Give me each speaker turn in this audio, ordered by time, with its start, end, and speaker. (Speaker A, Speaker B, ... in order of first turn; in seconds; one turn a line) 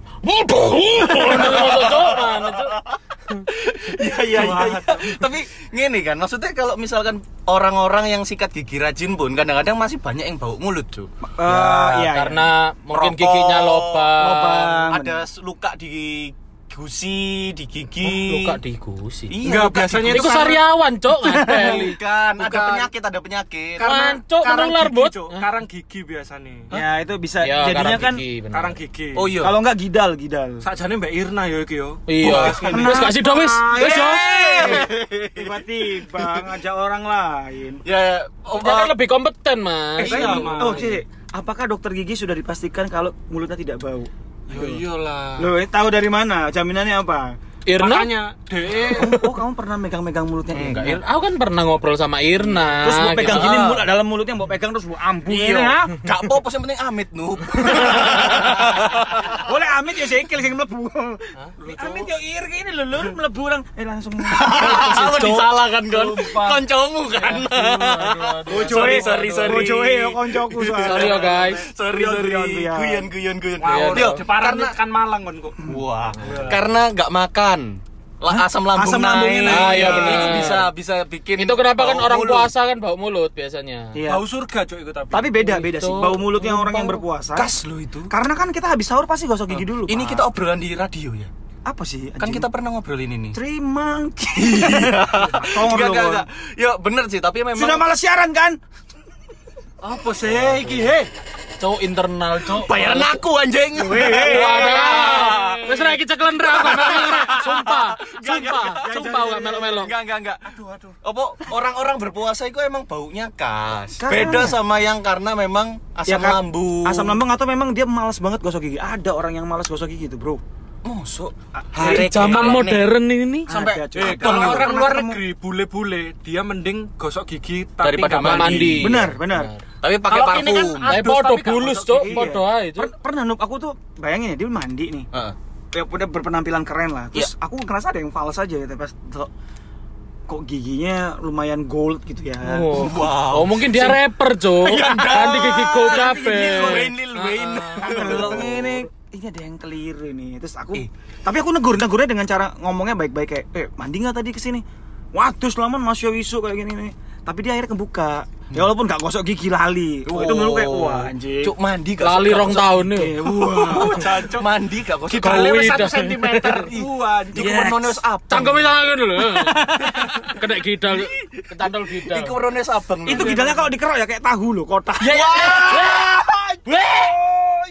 Speaker A: 0.2-2.8
Speaker B: 1.3-3.0
Speaker B: 3.5-12.1
Speaker C: 4.3-5.1
Speaker C: 11.2-13.2
Speaker A: 12.1-14.5
Speaker B: 12.9-18.6
Speaker C: 14.2-15.2
Speaker A: 18.1-19.4
Speaker B: 19.3-20.6
Speaker D: 19.4-20.6
Speaker A: 20.1-22.0
Speaker D: 21.2-22.9
Speaker B: 21.3-23.9
Speaker D: 23.8-26.7
Speaker A: 23.8-25.4
Speaker C: 26.7-28.2
Speaker A: 27.4-28.8
Speaker D: 28.5-29.3
Speaker B: 29.2-29.6
Speaker C: 29.4-30.6
Speaker D: 30.6-33.0
Speaker A: 32.1-34.9
Speaker B: 32.2-32.6
Speaker C: 32.4-37.8
Speaker B: 33.8-36.5
Speaker B: 37.9-39.0
Speaker A: 38.5-40.2
Speaker D: 40.0-41.0
Speaker C: 40.0-44.8
Speaker D: 44.5-45.5
Speaker C: 45.4-47.3
Speaker A: 47.7-48.1
Speaker D: 47.8-49.1
Speaker C: 48.9-51.0
Speaker A: 49.0-49.3
Speaker A: 50.5-53.8
Speaker C: 52.6-56.0
Speaker B: 53.3-53.8
Speaker B: 55.3-59.4
Speaker C: 59.3-65.3
Speaker D: 61.6-62.1
Speaker B: 64.2-74.8
Speaker A: 64.6-66.6
Speaker A: 67.2-69.7
Speaker C: 68.5-73.1
Speaker A: 70.8-71.7
Speaker D: 73.6-75.6
Speaker A: 73.7-74.2
Speaker B: 75.7-82.5
Speaker D: 76.2-76.6
Speaker A: 76.3-76.5
Speaker C: 78.3-80.6
Speaker A: 79.5-80.7
Speaker A: 81.4-84.0
Speaker C: 83.9-84.2
Speaker D: 84.1-85.3
Speaker C: 85.1-87.5
Speaker A: 85.3-87.0
Speaker B: 87.4-88.1
Speaker C: 88.1-90.3
Speaker B: 89.5-91.3
Speaker C: 91.7-92.5
Speaker B: 92.2-93.4
Speaker C: 93.3-96.3
Speaker B: 94.4-97.8
Speaker C: 97.5-98.6
Speaker D: 99.8-101.1
Speaker A: 101.6-103.2
Speaker B: 102.6-106.0
Speaker D: 103.8-106.0
Speaker C: 103.8-104.4
Speaker A: 104.2-109.9
Speaker B: 106.5-110.5
Speaker D: 106.6-107.3
Speaker C: 108.7-109.7
Speaker D: 110.5-111.0
Speaker B: 111.0-117.2
Speaker C: 114.0-114.6
Speaker A: 114.1-114.4
Speaker C: 116.1-120.4
Speaker B: 120.8-122.9
Speaker C: 121.6-122.3
Speaker A: 121.9-123.5
Speaker D: 122.2-122.6
Speaker C: 123.5-125.2
Speaker D: 123.5-128.8
Speaker B: 124.0-124.7
Speaker B: 127.8-129.0
Speaker A: 128.2-129.6
Speaker C: 128.7-129.5
Speaker B: 129.8-131.0
Speaker D: 130.1-132.3
Speaker A: 130.9-132.9
Speaker C: 132.0-135.1
Speaker C: 135.7-139.3
Speaker C: 140.3-142.9
Speaker A: 142.4-148.5
Speaker B: 142.7-144.0
Speaker B: 144.6-148.9
Speaker C: 147.8-161.5
Speaker B: 160.1-162.9
Speaker A: 162.0-163.2
Speaker C: 162.9-164.2
Speaker B: 163.5-165.6
Speaker D: 163.7-164.5
Speaker D: 165.1-167.7
Speaker A: 165.2-166.7
Speaker B: 166.5-168.7
Speaker A: 167.7-172.3
Speaker B: 169.9-170.4
Speaker B: 170.9-173.6
Speaker C: 173.1-175.9
Speaker B: 175.0-176.8
Speaker A: 175.2-176.1
Speaker A: 176.7-177.1
Speaker C: 177.1-177.5